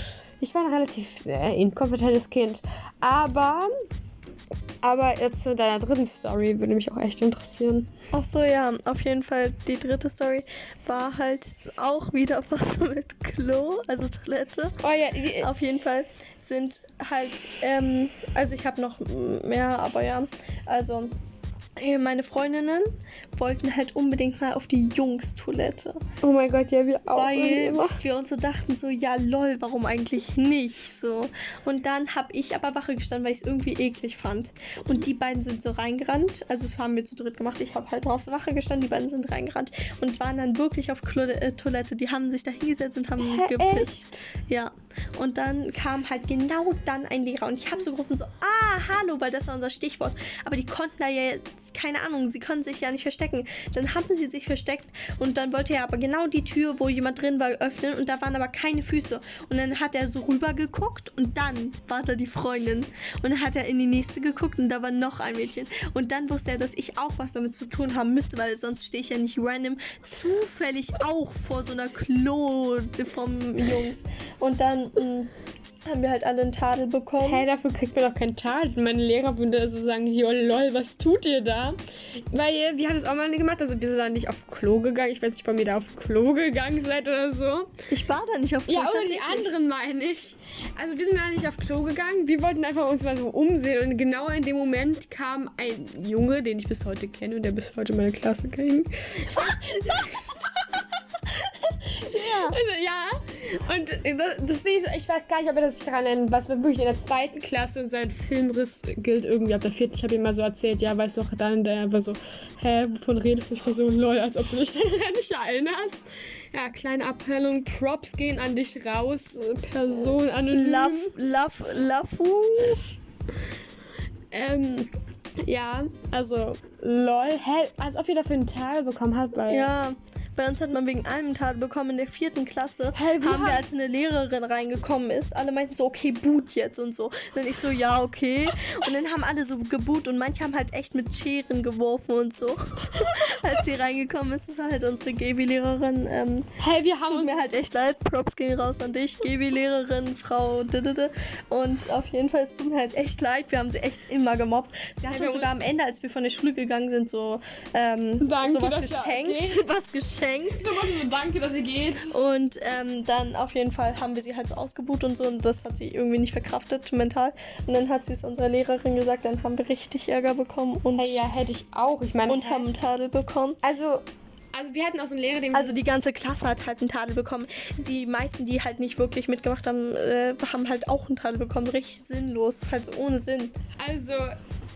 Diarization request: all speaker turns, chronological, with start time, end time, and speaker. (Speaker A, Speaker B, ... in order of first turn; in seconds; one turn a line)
Speaker A: 0.4-3.7
Speaker A: 4.8-7.9
Speaker B: 8.1-14.8
Speaker A: 14.8-15.5
Speaker B: 15.4-21.1
Speaker B: 21.8-26.0
Speaker A: 26.2-28.0
Speaker B: 27.1-75.3
Speaker A: 43.2-44.3
Speaker B: 75.9-77.5
Speaker A: 77.2-81.8
Speaker A: 82.3-87.7
Speaker B: 87.9-89.5
Speaker A: 88.7-121.1
Speaker B: 102.1-102.6
Speaker B: 120.5-122.8
Speaker A: 124.3-129.7
Speaker B: 129.5-160.6
Speaker A: 132.9-133.6
Speaker A: 143.0-143.6
Speaker A: 146.6-147.5
Speaker A: 155.1-155.5
Speaker A: 158.2-159.6
Speaker A: 160.6-162.1
Speaker B: 162.1-171.2
Speaker A: 170.9-172.7
Speaker B: 172.3-173.6
Speaker A: 173.6-175.8
Speaker B: 175.5-183.5
Speaker A: 183.8-184.3